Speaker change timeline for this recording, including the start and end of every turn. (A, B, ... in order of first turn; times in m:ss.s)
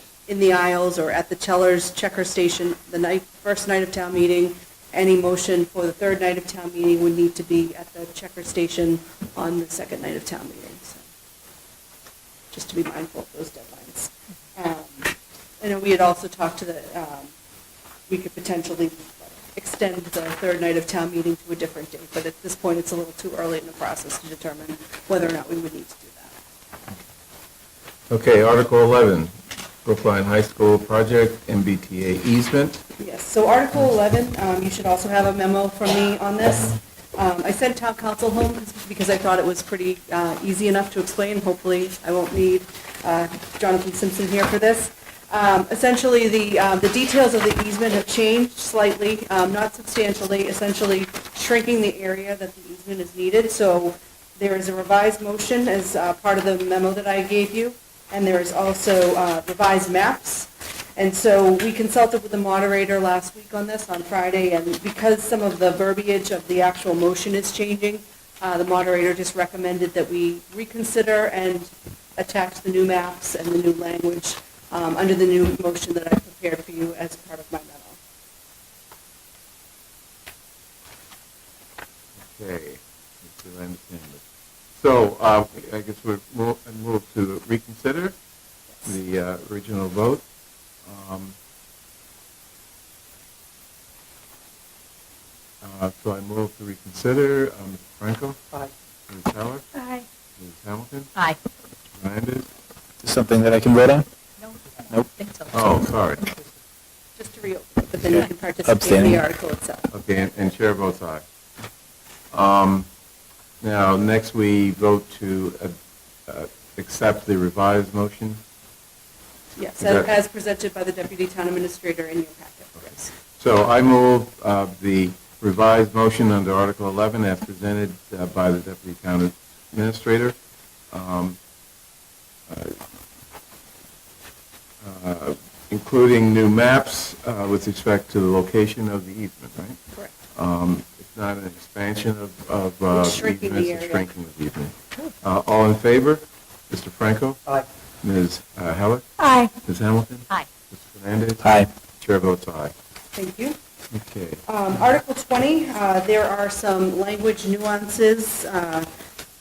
0:00.3-0:11.0 A
0:12.5-0:17.3 A
0:18.1-0:26.3 A
0:28.1-0:29.3 B
0:29.8-0:32.8 B
0:33.0-1:18.0 A
1:22.2-1:24.2 B
1:24.8-1:28.1 B
1:28.8-1:30.2 B
1:30.8-1:31.4 B
1:35.6-1:38.4 B
1:39.1-1:39.7 B
1:39.7-1:40.0 C
1:40.4-1:41.1 B
1:42.0-1:42.5 B
1:43.0-1:44.1 D
1:44.4-1:45.8 C
1:45.5-1:46.2 B
1:47.2-1:49.9 A
1:48.0-1:49.2 D
1:49.9-1:51.2 B
1:52.3-1:52.9 B
1:53.6-1:58.4 B
1:59.6-2:03.1 A
1:59.8-2:00.1 B
2:02.9-2:10.4 B
2:10.9-2:11.4 B
2:12.5-2:12.8 B
2:14.8-2:19.8 B
2:20.3-2:27.4 B
2:22.9-2:24.1 A
2:28.0-2:32.7 B
2:29.2-2:29.5 C
2:31.4-2:31.7 D
2:33.1-2:33.6 A
2:33.9-2:34.4 B
2:34.4-2:38.9 A